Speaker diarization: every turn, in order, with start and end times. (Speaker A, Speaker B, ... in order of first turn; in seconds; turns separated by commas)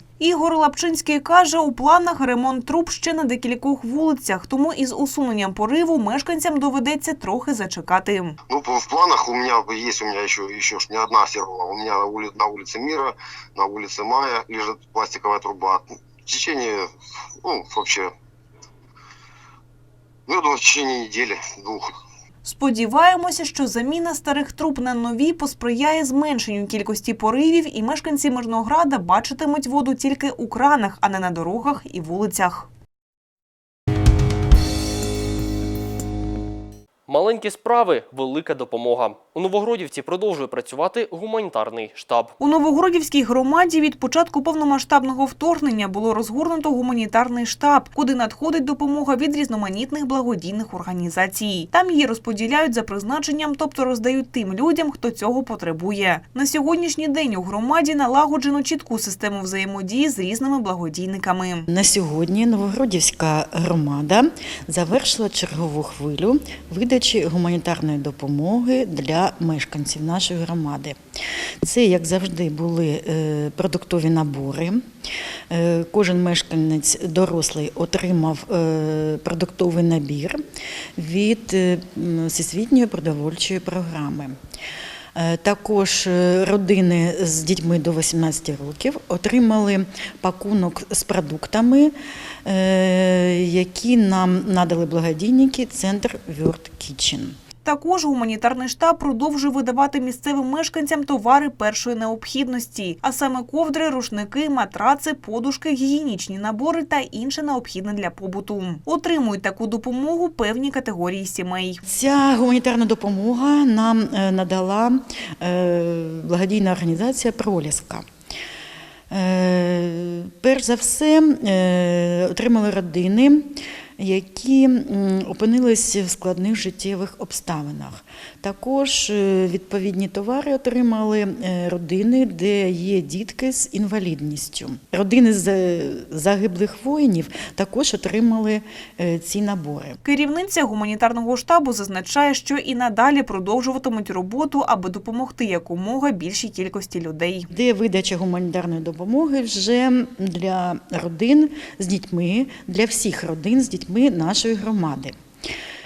Speaker A: 0.2-8.4, Speaker B: 8.5-16.9, Speaker B: 17.4-18.1, Speaker B: 20.3-21.9, Speaker A: 22.4-32.7, Speaker C: 37.1-42.3, Speaker A: 42.4-61.7, Speaker D: 61.7-71.0, Speaker D: 71.6-74.8, Speaker D: 75.5-80.4, Speaker D: 81.0-84.4, Speaker D: 85.1-91.9, Speaker D: 92.4-97.4, Speaker A: 97.6-111.8, Speaker D: 111.9-118.0, Speaker D: 119.1-140.0, Speaker A: 140.0-147.5, Speaker D: 147.5-155.2